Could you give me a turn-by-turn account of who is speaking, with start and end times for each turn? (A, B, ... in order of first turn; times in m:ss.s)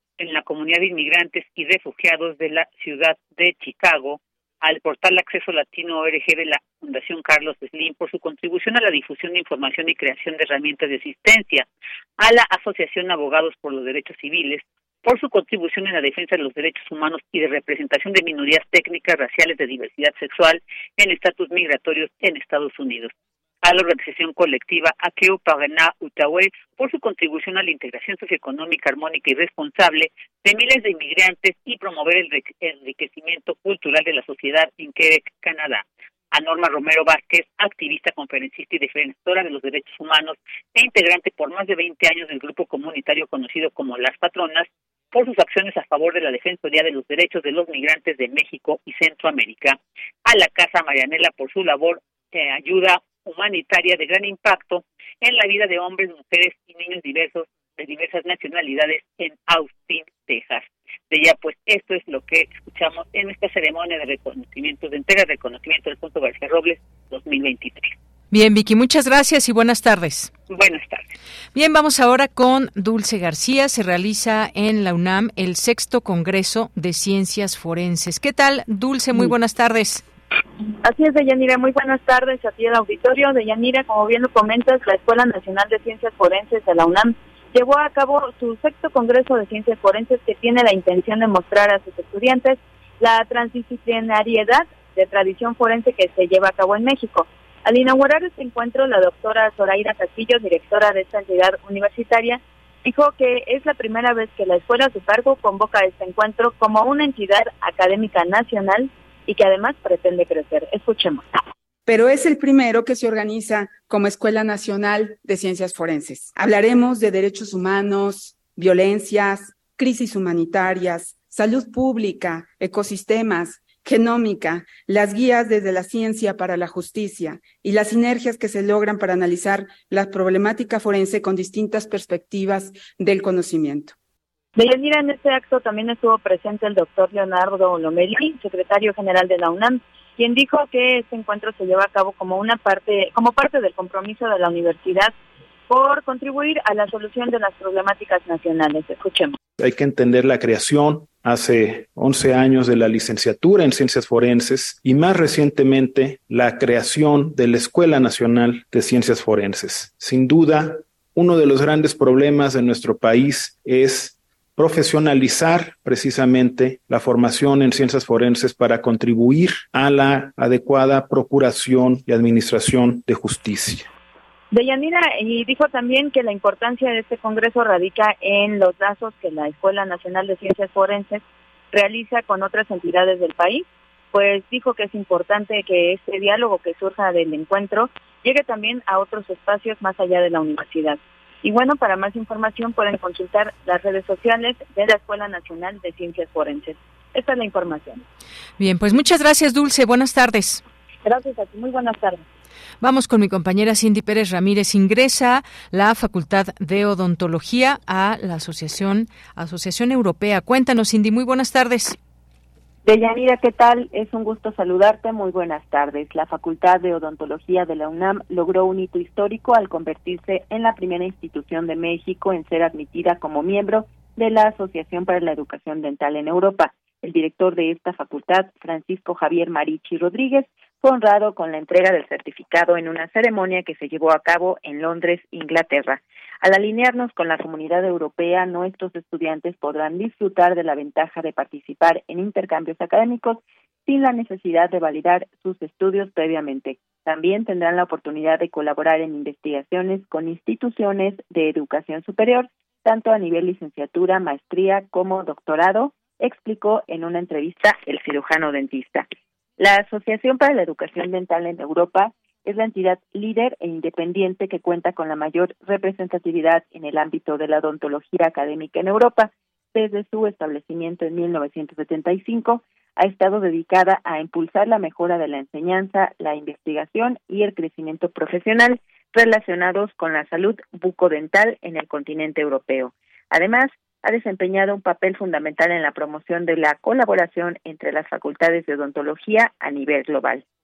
0:00.2-0:11.7 A
0:12.2-0:23.1 A
0:23.6-1:07.9 A
1:08.3-1:10.3 B
1:10.5-1:11.1 A
1:11.6-1:20.0 B
1:20.8-1:51.3 C
1:51.9-2:13.9 D
2:14.6-2:25.1 C
2:25.7-2:29.4 C
2:29.6-2:53.9 E
2:54.5-3:01.2 C
3:01.7-3:18.0 C
3:18.6-3:20.6 B
3:21.0-3:22.2 C
3:22.8-3:32.0 B
3:32.8-4:19.1 F
4:19.6-4:50.4 F